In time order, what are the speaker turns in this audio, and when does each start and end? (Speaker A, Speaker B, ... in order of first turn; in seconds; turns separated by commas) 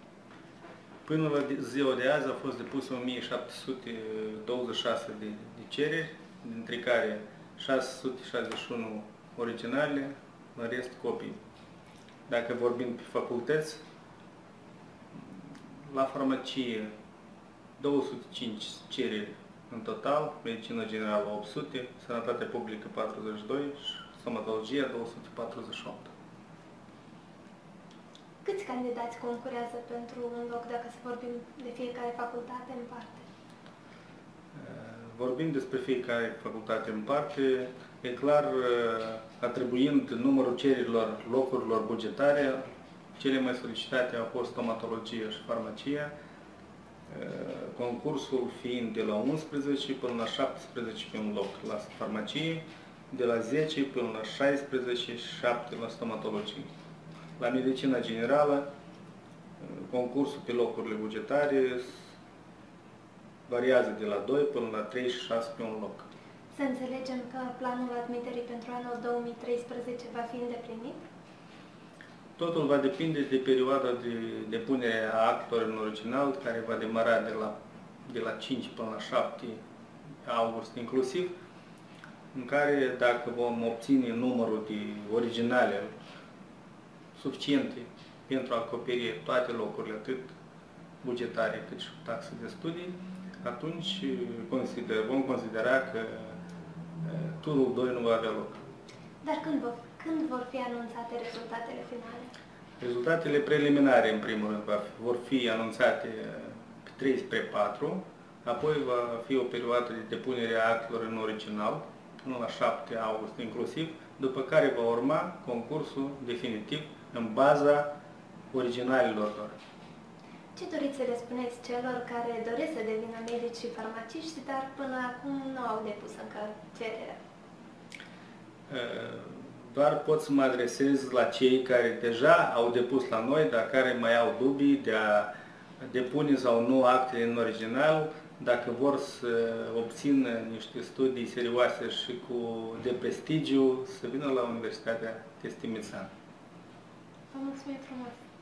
Speaker A: 1.1-11.4, Speaker A: 12.3-13.8, Speaker A: 15.1-16.9, Speaker A: 17.8-26.1, Speaker B: 28.4-33.2, Speaker A: 34.5-42.6, Speaker A: 43.2-46.1, Speaker A: 47.1-56.7, Speaker A: 57.4-58.6, Speaker A: 59.6-62.0, Speaker A: 63.5-66.1, Speaker B: 66.5-71.0, Speaker A: 72.4-77.5, Speaker A: 78.1-79.6, Speaker A: 80.2-81.3, Speaker A: 82.3-85.9, Speaker A: 87.1-90.3, Speaker A: 91.0-96.4, Speaker A: 97.0-98.6, Speaker B: 99.2-102.3, Speaker A: 102.8-117.9, Speaker A: 118.5-119.5, Speaker B: 120.5-127.2, Speaker A: 128.7-146.1, Speaker B: 147.3-148.2